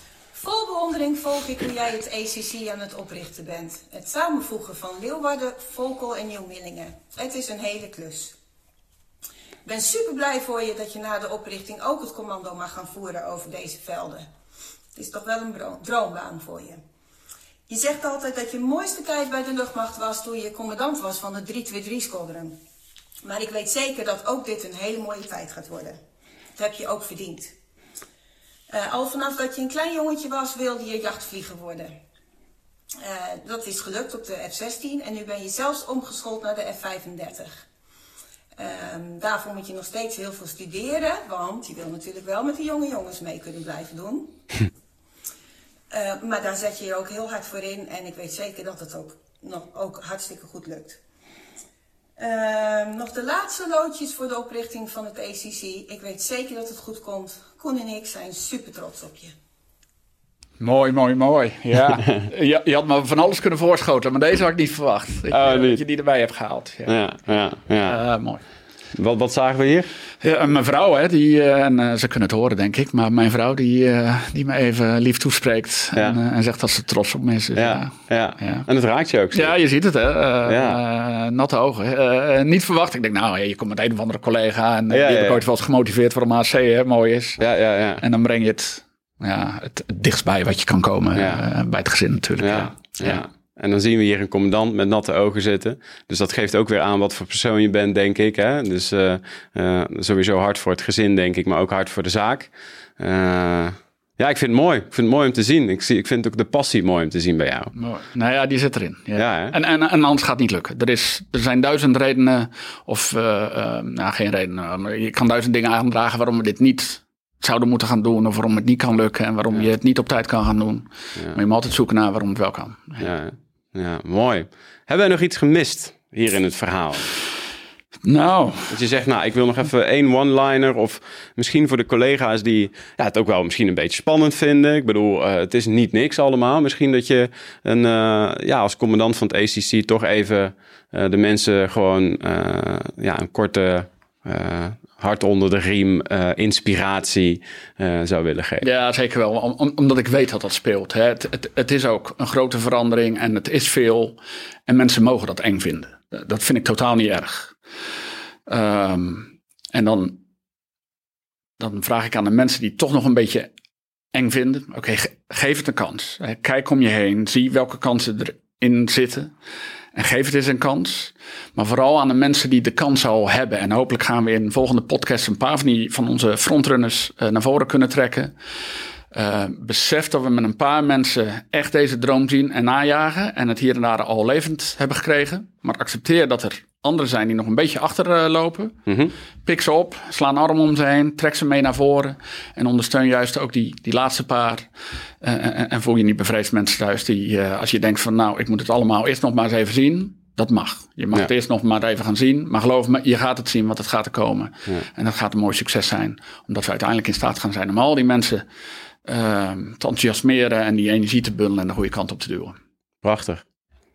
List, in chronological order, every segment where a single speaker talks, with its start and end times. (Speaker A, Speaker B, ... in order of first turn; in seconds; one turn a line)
Speaker A: 0.3-8.4
Speaker A: 9.6-14.3
Speaker A: 14.9-16.8
Speaker A: 17.7-22.6
Speaker A: 23.2-26.0
Speaker A: 26.6-27.5
Speaker A: 28.7-32.0
Speaker A: 33.0-37.6
Speaker A: 38.5-44.3
Speaker A: 45.9-51.0
Speaker A: 52.2-59.3
Speaker B: 60.6-67.0
Speaker C: 61.9-62.2
Speaker C: 65.3-65.8
Speaker C: 66.9-68.0
Speaker B: 67.8-68.4
Speaker C: 68.9-69.9
Speaker B: 70.2-78.7
Speaker C: 77.5-79.5
Speaker B: 79.3-87.4
Speaker C: 80.5-80.8
Speaker C: 84.9-85.4
Speaker C: 87.4-88.0
Speaker B: 88.0-93.2
Speaker C: 91.1-91.4
Speaker C: 92.4-107.7
Speaker B: 107.7-123.1
Speaker C: 109.2-109.5
Speaker C: 123.0-127.1
Speaker B: 128.0-128.8
Speaker C: 128.7-148.7
Speaker B: 148.6-157.5
Speaker B: 158.5-160.2
Speaker B: 161.6-163.5
Speaker B: 164.1-169.3
Speaker B: 169.9-178.3
Speaker B: 179.1-188.8
Speaker C: 188.9-189.1
Speaker B: 189.4-194.7
Speaker B: 195.2-208.4
Speaker B: 209.0-212.6
Speaker C: 213.0-213.4